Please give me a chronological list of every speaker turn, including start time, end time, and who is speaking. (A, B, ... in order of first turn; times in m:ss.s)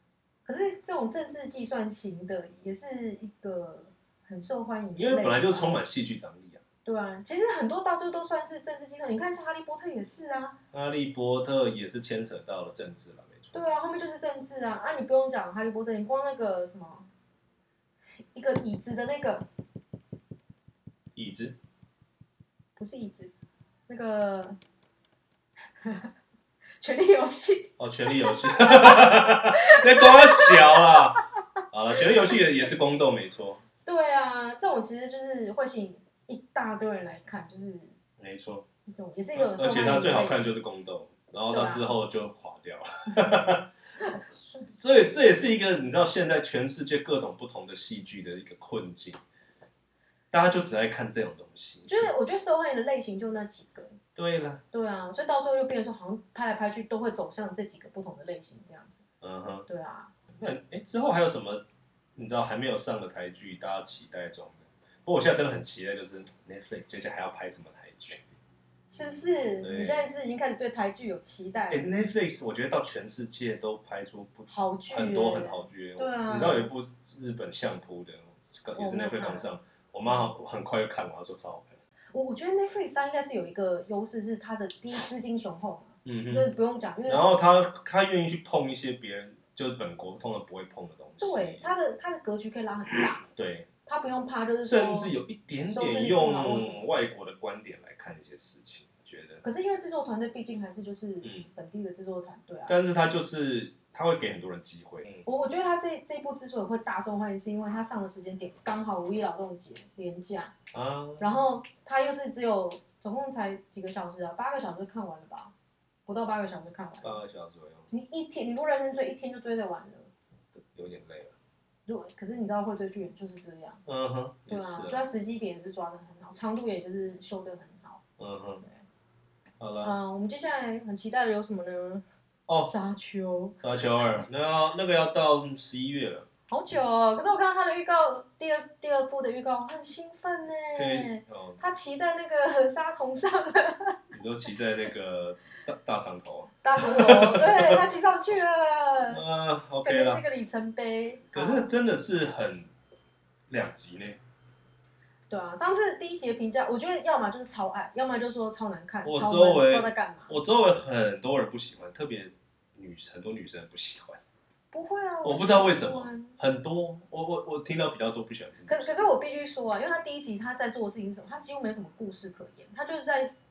0:00.4-0:05.8 A
0:05.0-0:06.6 B
0:06.8-0:10.6 A
0:10.7-0:13.7 B
0:13.5-0:17.1 A
0:18.3-0:19.5 A
0:21.2-0:21.6 B
0:22.8-0:23.3 A
0:23.9-0:24.6 A
0:25.8-0:26.1 A
0:26.8-0:31.2 A
0:27.8-0:33.6 B
0:33.8-0:38.0 A
0:38.2-0:38.6 B
0:38.9-0:40.5 A
0:39.4-0:43.7 B
0:41.5-0:41.8 A
0:44.0-0:44.6 A
0:44.8-0:49.2 B
0:50.3-0:52.0 B
0:51.9-0:54.0 A
0:54.2-0:54.6 B
0:54.7-0:59.0 A
0:59.2-0:59.7 B
0:59.7-1:00.1 A
1:00.4-1:01.6 B
1:02.2-1:08.2 B
1:08.9-1:11.9 A
1:09.6-1:10.1 B
1:11.7-1:21.8 B
1:14.5-1:16.7 A
1:18.8-1:19.5 A
1:22.1-1:27.2 A
1:26.0-1:26.5 B
1:27.1-1:31.8 B
1:31.2-1:33.2 A
1:33.2-1:33.7 B
1:33.9-1:35.1 A
1:34.6-1:39.4 B
1:35.7-1:36.8 A
1:39.4-1:42.8 A
1:41.2-1:41.5 B
1:42.7-1:45.2 B
1:45.3-1:50.6 A
1:50.7-1:51.2 B
1:51.2-1:55.5 A
1:56.1-1:57.2 A
1:57.0-1:57.9 B
1:57.9-2:00.1 A
2:00.5-2:01.4 B
2:01.9-2:03.8 A
2:03.9-2:05.1 B
2:04.5-2:08.0 A
2:08.2-2:08.6 B
2:09.6-2:10.0 B
2:09.8-2:12.0 A
2:12.5-2:12.7 B
2:12.6-2:13.6 A
2:13.6-2:16.3 B
2:16.5-2:24.0 A
2:20.8-2:21.6 B
2:24.1-2:27.8 B
2:26.6-2:29.2 A
2:29.1-2:30.2 B
2:29.8-2:31.7 A
2:31.3-2:32.7 B
2:33.5-2:34.2 B
2:35.3-2:40.4 A
2:39.0-2:44.2 B
2:44.7-2:46.4 A
2:45.2-2:49.1 B
2:48.7-2:53.3 A